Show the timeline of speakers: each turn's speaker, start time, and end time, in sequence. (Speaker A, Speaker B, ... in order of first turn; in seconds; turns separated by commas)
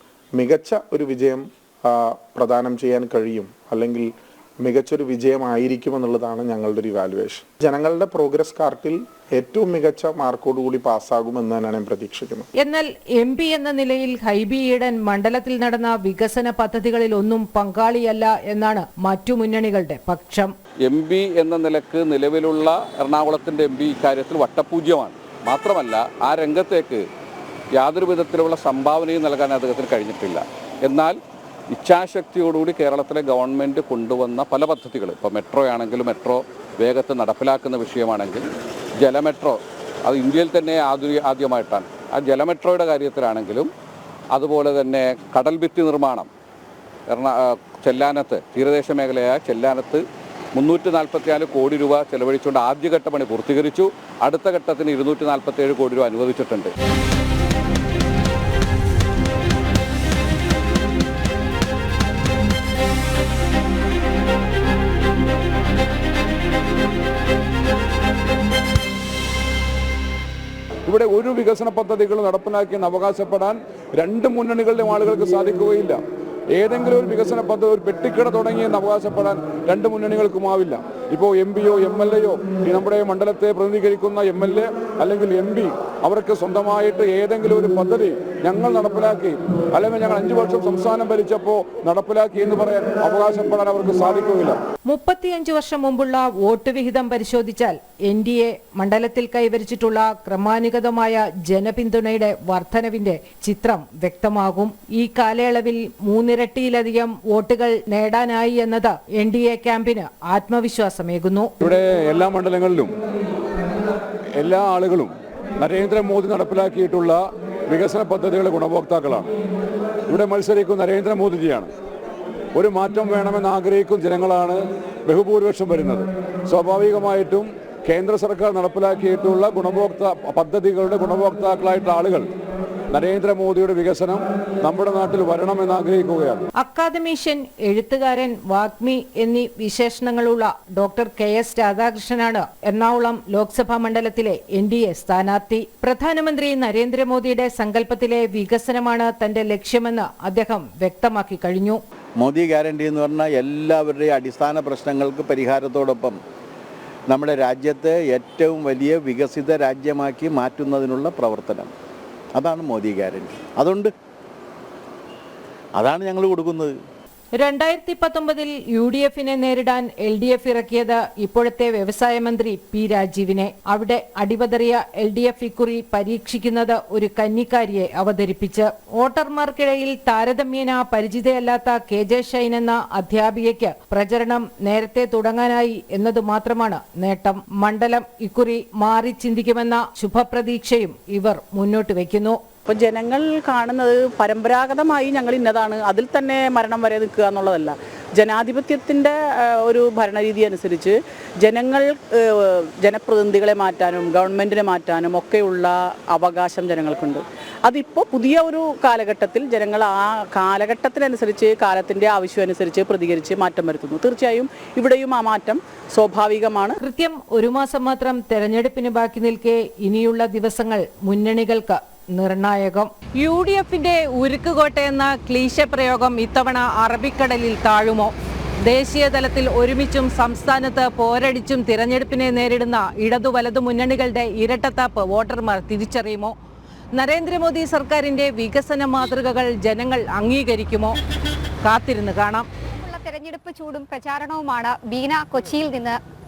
Speaker A: 0.3-12.5, Speaker B: 12.6-20.5, Speaker C: 20.8-27.0, Speaker C: 27.8-31.2, Speaker C: 31.7-38.5, Speaker C: 39.0-43.7, Speaker C: 44.3-46.3, Speaker C: 47.1-50.0, Speaker C: 50.5-56.7, Speaker D: 70.8-76.0, Speaker D: 76.5-94.6, Speaker B: 94.8-111.5, Speaker D: 111.6-112.9, Speaker D: 114.3-119.3, Speaker D: 120.1-121.7, Speaker D: 122.5-132.3, Speaker D: 132.9-136.5, Speaker B: 136.6-151.8, Speaker E: 152.2-156.2, Speaker E: 157.1-161.7, Speaker E: 162.3-163.9, Speaker E: 165.8-166.8, Speaker B: 167.3-192.4, Speaker F: 192.7-216.8, Speaker B: 216.8-236.3, Speaker B: 236.9-241.0, Speaker B: 241.6-242.5, Speaker G: 242.7-246.0